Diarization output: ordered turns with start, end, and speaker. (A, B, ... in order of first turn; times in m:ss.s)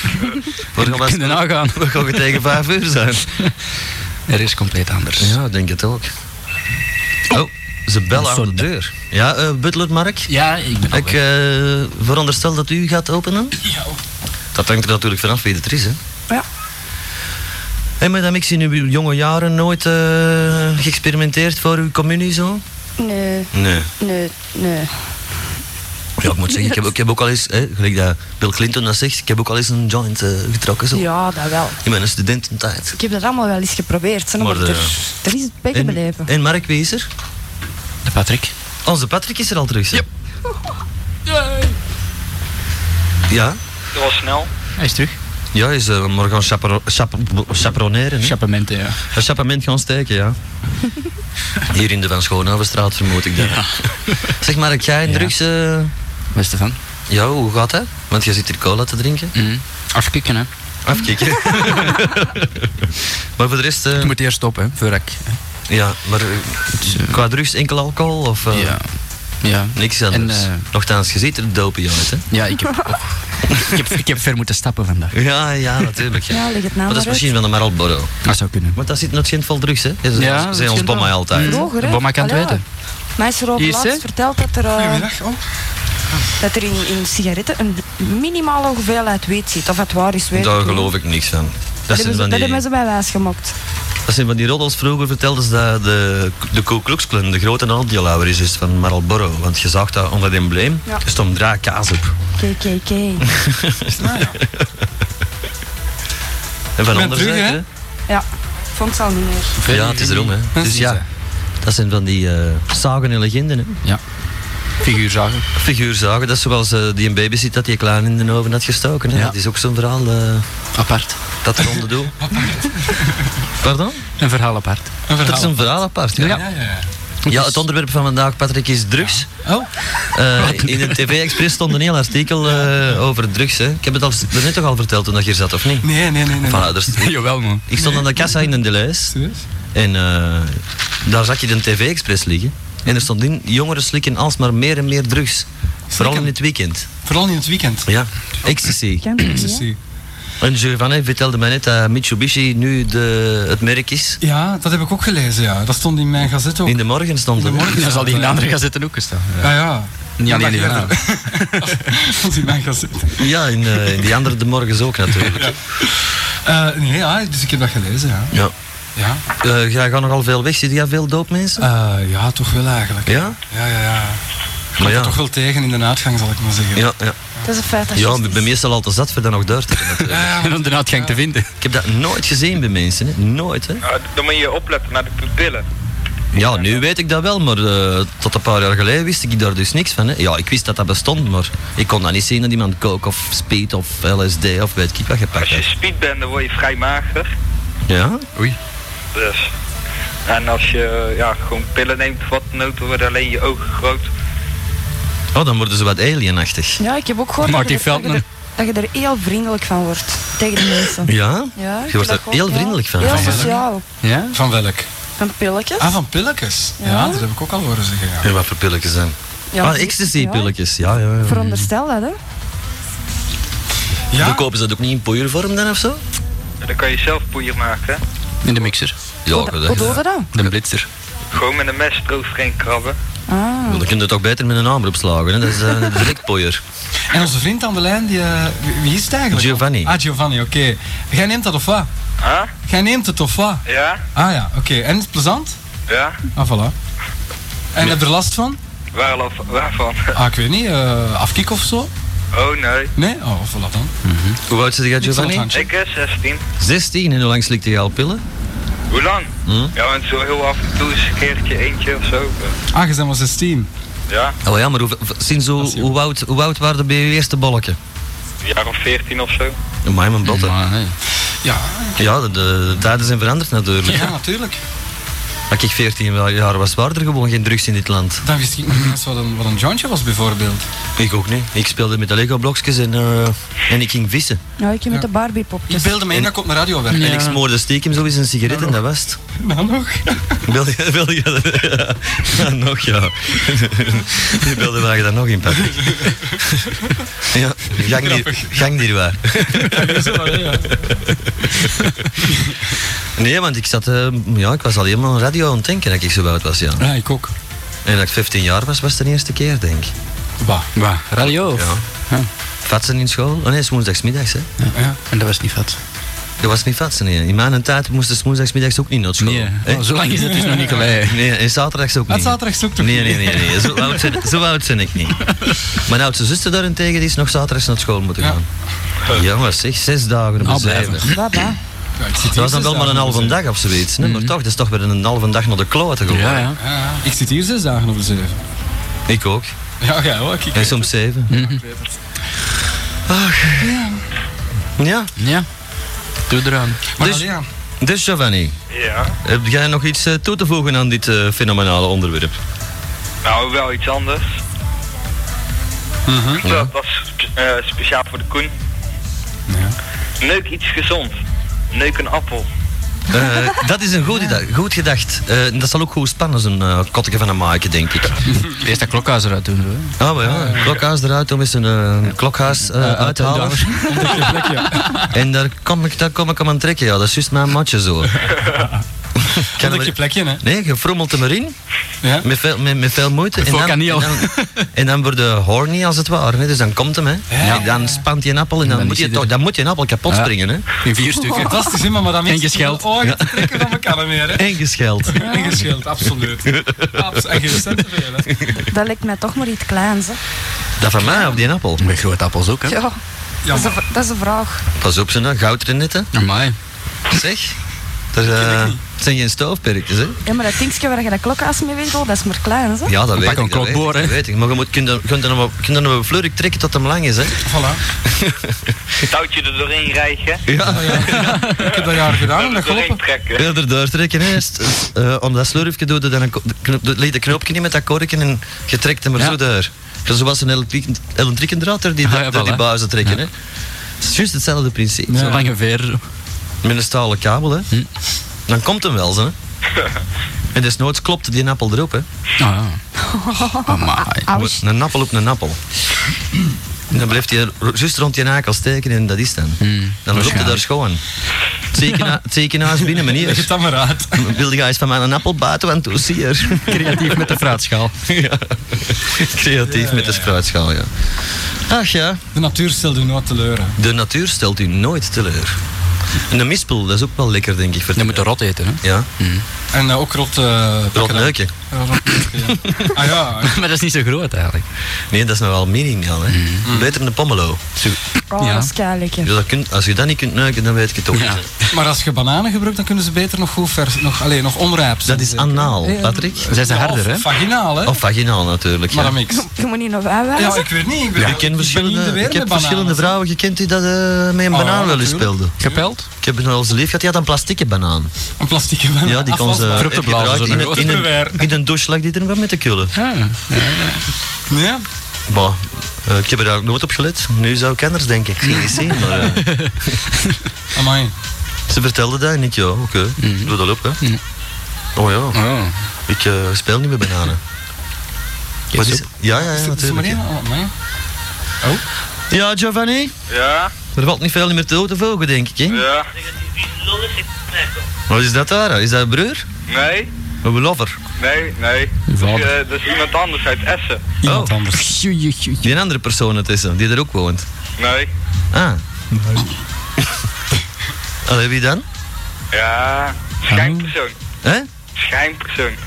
0:00.2-0:02.0 A
0:00.7-0:03.3 B
0:04.3-0:05.3 A
0:05.2-0:06.1 B
0:07.3-0:10.3 B
0:08.1-0:08.6 A
0:10.3-0:11.1 A
0:10.9-0:13.6 B
0:13.6-0:14.0 C
0:14.5-0:16.0 B
0:18.0-0:22.6 B
0:23.0-0:24.9 D
0:23.5-0:23.9 B
0:26.2-0:31.1 B
0:30.9-0:31.8 D
0:31.8-0:33.0 B
0:33.0-0:36.3 D
0:34.4-0:35.0 B
0:35.7-0:37.1 B
0:38.0-0:38.5 A
0:38.8-0:40.0 B
0:41.2-0:41.7 A
0:43.3-0:43.6 B
0:43.9-0:44.5 E
0:44.8-0:45.2 A
0:45.5-0:48.4 B
0:48.2-0:49.0 A
0:49.1-0:50.4 B
0:51.7-0:53.8 B
0:53.4-0:54.4 A
0:54.4-0:55.9 B
0:55.0-0:55.3 A
0:56.3-0:56.8 A
0:57.1-0:59.3 B
0:59.4-1:00.5 A
1:00.8-1:04.1 B
1:04.0-1:05.4 A
1:05.7-1:08.8 B
1:06.8-1:07.2 A
1:08.5-1:08.8 A
1:09.4-1:10.6 A
1:09.7-1:12.2 B
1:12.3-1:15.1 A
1:15.1-1:18.1 B
1:16.3-1:17.3 D
1:18.2-1:18.8 A
1:18.7-1:21.7 B
1:20.1-1:22.6 A
1:21.4-1:22.6 D
1:23.2-1:25.0 D
1:23.6-1:24.0 A
1:24.7-1:25.4 C
1:26.4-1:30.9 D
1:30.3-1:32.6 B
1:31.9-1:33.5 D
1:34.0-1:42.1 B
1:42.4-1:43.3 D
1:43.2-1:44.8 B
1:44.0-1:44.4 C
1:46.8-1:47.6 B
1:46.9-1:47.6 C
1:48.1-1:49.5 D
1:49.6-1:50.4 A
1:49.7-1:51.0 B
1:49.7-1:51.0 C
1:51.6-1:53.8 B
1:54.8-1:55.4 A
1:55.6-2:00.5 B
2:00.7-2:01.2 A
2:01.4-2:02.1 B
2:02.2-2:03.3 C
2:03.6-2:04.0 B
2:04.2-2:04.9 A
2:05.1-2:06.9 C
2:05.2-2:06.4 B
2:06.2-2:06.4 A
2:07.2-2:07.6 A
2:07.3-2:09.3 B
2:09.0-2:09.9 C
2:10.1-2:19.1 B
2:10.4-2:11.1 A
2:15.8-2:16.7 C
2:16.9-2:17.6 A
2:17.7-2:18.5 C
2:19.1-2:19.4 C
2:19.7-2:25.5 B
2:25.9-2:26.3 C
2:26.0-2:26.9 B
2:27.0-2:27.9 C
2:27.8-2:29.1 B
2:29.0-2:29.7 D
2:29.2-2:29.8 C
2:30.4-2:34.2 B
2:34.2-2:36.8 C
2:36.6-2:38.1 B
2:37.4-2:38.5 C
2:37.7-2:39.6 A
2:39.4-2:43.2 C
2:40.2-2:41.6 A
2:43.2-2:45.6 B
2:45.2-2:48.3 C
2:49.0-2:49.2 C
2:49.4-2:51.7 B
2:51.6-2:54.2 C
2:53.0-2:53.4 B
2:54.8-2:56.9 C
2:54.8-2:55.2 B
2:56.7-2:57.2 B
2:57.4-2:58.5 D
2:57.9-3:00.4 B
3:00.1-3:01.2 C
3:00.3-3:01.5 A
3:01.6-3:03.8 B
3:03.8-3:05.6 E
3:06.3-3:15.6 B
3:06.4-3:06.8 E
3:15.4-3:17.3 E
3:17.9-3:18.3 B
3:19.1-3:19.5 E
3:20.2-3:24.1 E
3:25.3-3:26.8 B
3:26.8-3:33.8 D
3:27.4-3:28.2 A
3:31.0-3:33.4 B
3:33.0-3:33.6 C
3:34.0-3:34.4 A
3:34.3-3:34.9 C
3:35.2-3:35.9 D
3:35.8-3:38.3 C
3:36.8-3:37.2 D
3:38.2-3:41.4 B
3:39.5-3:40.5 D
3:41.2-3:42.2 D
3:41.4-3:41.6 A
3:44.1-3:44.4 C
3:44.1-3:46.0 B
3:46.6-3:48.0 E
3:48.4-3:49.0 A
3:49.2-3:50.0 B
3:49.3-3:50.3 D
3:50.3-3:50.8 A
3:51.3-3:53.0 E
3:53.3-3:53.8 D
3:53.7-3:56.6 B
3:57.1-4:01.9 C
3:59.3-4:00.0 B
4:02.2-4:02.5 E
4:02.6-4:03.6 C
4:03.6-4:04.0 E
4:04.1-4:05.6 C
4:05.9-4:06.2 E
4:06.3-4:06.7 C
4:07.7-4:08.6 C
4:08.9-4:10.1 E
4:10.2-4:11.9 C
4:12.3-4:12.9 E
4:13.0-4:13.9 C
4:14.0-4:14.4 A
4:14.5-4:15.5 B
4:15.0-4:15.7 C
4:15.5-4:16.4 E
4:16.6-4:18.2 B
4:18.9-4:22.6 E
4:19.4-4:19.7 B
4:22.7-4:23.7 C
4:24.1-4:24.4 E
4:24.4-4:27.8 B
4:25.6-4:25.9 C
4:28.4-4:29.5 E
4:29.8-4:30.5 B
4:30.2-4:30.9 A
4:31.4-4:32.0 C
4:32.0-4:34.1 B
4:33.9-4:34.6 C
4:35.5-4:38.2 B
4:38.2-4:40.6 C
4:41.0-4:44.4 B
4:44.6-4:46.0 D
4:45.7-4:47.3 C
4:46.9-4:47.4 A
4:47.0-4:49.2 B
4:48.5-4:48.8 C
4:49.4-4:50.4 C
4:50.4-4:56.0 B
4:55.7-4:57.0 C
4:57.2-5:01.5 B
4:57.8-4:58.7 C
4:59.4-5:00.9 C
5:02.2-5:02.6 C
5:03.2-5:06.9 B
5:06.8-5:07.3 C
5:07.8-5:09.9 B
5:10.4-5:10.7 C
5:10.7-5:12.3 A
5:11.5-5:11.8 B
5:12.6-5:14.5 B
5:14.6-5:15.8 A
5:16.4-5:20.0 B
5:19.2-5:21.2 A
5:20.1-5:20.9 C
5:20.9-5:25.3 B
5:22.1-5:23.9 C
5:25.2-5:25.6 A
5:25.8-5:28.4 B
5:29.1-5:31.1 B
5:30.4-5:31.2 A
5:31.1-5:31.6 D
5:32.0-5:33.4 C
5:32.3-5:36.5 B
5:34.0-5:34.3 A
5:36.1-5:36.6 A
5:36.6-5:38.4 C
5:39.1-5:39.5 B
5:39.8-5:41.6 C
5:40.5-5:41.3 B
5:41.3-5:41.6 A
5:43.1-5:43.8 B
5:43.6-5:44.0 C
5:44.8-5:45.1 B
5:45.2-5:45.4 A
5:46.3-5:46.8 A
5:46.9-5:47.4 C
5:47.0-5:47.3 B
5:47.8-5:48.5 B
5:48.7-5:49.1 E
5:49.2-5:52.4 B
5:53.2-5:54.2 E
5:56.1-5:56.4 C
5:56.4-5:56.7 B
5:56.4-5:58.5 E
5:59.5-5:59.8 C
6:00.2-6:01.2 E
6:01.7-6:02.5 E
6:03.1-6:08.2 B
6:08.5-6:10.0 A
6:10.0-6:13.8 B
6:10.2-6:10.8 C
6:12.6-6:14.2 A
6:13.8-6:15.1 C
6:15.1-6:18.1 B
6:18.3-6:18.8 C
6:19.2-6:21.6 B
6:19.6-6:20.4 C
6:22.0-6:22.3 C
6:22.2-6:30.6 B
6:23.4-6:24.7 A
6:27.3-6:28.0 C
6:28.6-6:29.3 A
6:30.1-6:32.9 A
6:31.2-6:31.6 D
6:31.4-6:34.5 C
6:33.0-6:33.7 B
6:34.3-6:35.3 B
6:35.1-6:38.4 C
6:35.2-6:35.5 D
6:36.4-6:37.6 B
6:38.7-6:40.2 D
6:40.8-6:41.8 B
6:41.8-6:42.8 A
6:42.6-6:43.0 D
6:43.4-6:43.8 C
6:43.5-6:44.6 D
6:44.8-6:46.1 B
6:46.1-6:46.6 A
6:47.1-6:47.6 B
6:48.1-6:50.2 B
6:48.3-6:48.8 C
6:50.2-6:53.0 D
6:52.8-6:57.4 B
6:53.2-6:54.2 A
6:57.4-6:57.8 C
6:58.0-6:58.8 B
6:59.0-7:00.4 E
7:00.5-7:01.4 B
7:00.6-7:03.0 C
7:01.6-7:01.8 E
7:02.4-7:03.5 E
7:03.4-7:13.3 B
7:12.0-7:13.2 A
7:14.0-7:15.4 B
7:15.1-7:15.4 C
7:15.1-7:16.0 A
7:16.6-7:17.7 B
7:18.5-7:19.3 B
7:20.5-7:22.0 B
7:22.4-7:22.8 A
7:23.0-7:24.6 D
7:23.6-7:24.3 A
7:24.3-7:25.6 B
7:26.9-7:31.0 B
7:29.6-7:30.6 A
7:31.7-7:33.5 B
7:33.0-7:34.3 C
7:34.2-7:36.9 B
7:36.6-7:37.9 A
7:38.0-7:40.9 B
7:39.6-7:40.3 C
7:41.7-7:42.2 B
7:42.3-7:43.8 C
7:43.8-7:45.6 B
7:46.3-7:48.3 B
7:48.0-7:49.4 A
7:48.8-7:49.1 B
7:49.7-7:53.6 C
7:50.9-7:51.5 B
7:53.4-7:54.6 A
7:55.1-7:57.6 B
7:56.3-7:56.7 A
7:56.7-7:57.0 C
7:57.8-7:58.7 A
7:58.3-7:59.3 D
7:59.2-8:01.4 B
8:01.1-8:01.6 A
8:01.7-8:08.0 C
8:05.0-8:06.5 B
8:06.5-8:07.3 A
8:07.8-8:09.2 B
8:08.9-8:09.4 C
8:09.3-8:10.7 D
8:10.4-8:13.2 C
8:11.2-8:15.5 B
8:14.5-8:15.8 C
8:15.6-8:16.0 A
8:16.2-8:18.1 B
8:18.4-8:21.4 C
8:19.0-8:22.9 B
8:19.7-8:21.1 A
8:22.9-8:24.0 A
8:24.5-8:24.8 C
8:25.3-8:29.6 B
8:28.5-8:30.4 A
8:30.7-8:31.1 C
8:31.7-8:34.0 B
8:33.2-8:34.2 A
8:35.0-8:35.4 B
8:35.3-8:35.7 A
8:36.1-8:37.4 B
8:38.7-8:39.0 A
8:38.7-8:40.2 B
8:39.3-8:40.7 C
8:42.3-8:43.1 B
8:43.3-8:43.7 E
8:43.9-8:45.8 B
8:45.7-8:46.1 E
8:46.9-8:47.7 E
8:48.1-8:49.4 B
8:49.7-8:50.1 E
8:50.4-8:51.0 B
8:51.2-8:54.0 E
8:52.1-8:52.5 A
8:54.2-8:54.9 C
8:54.2-8:54.6 B
8:54.7-8:55.7 A
8:55.6-8:57.4 B
8:57.8-8:58.1 E
8:58.5-8:58.8 B
9:01.2-9:01.8 B
9:02.5-9:04.1 E
9:03.5-9:03.8 C
9:04.4-9:04.7 B
9:05.0-9:05.8 E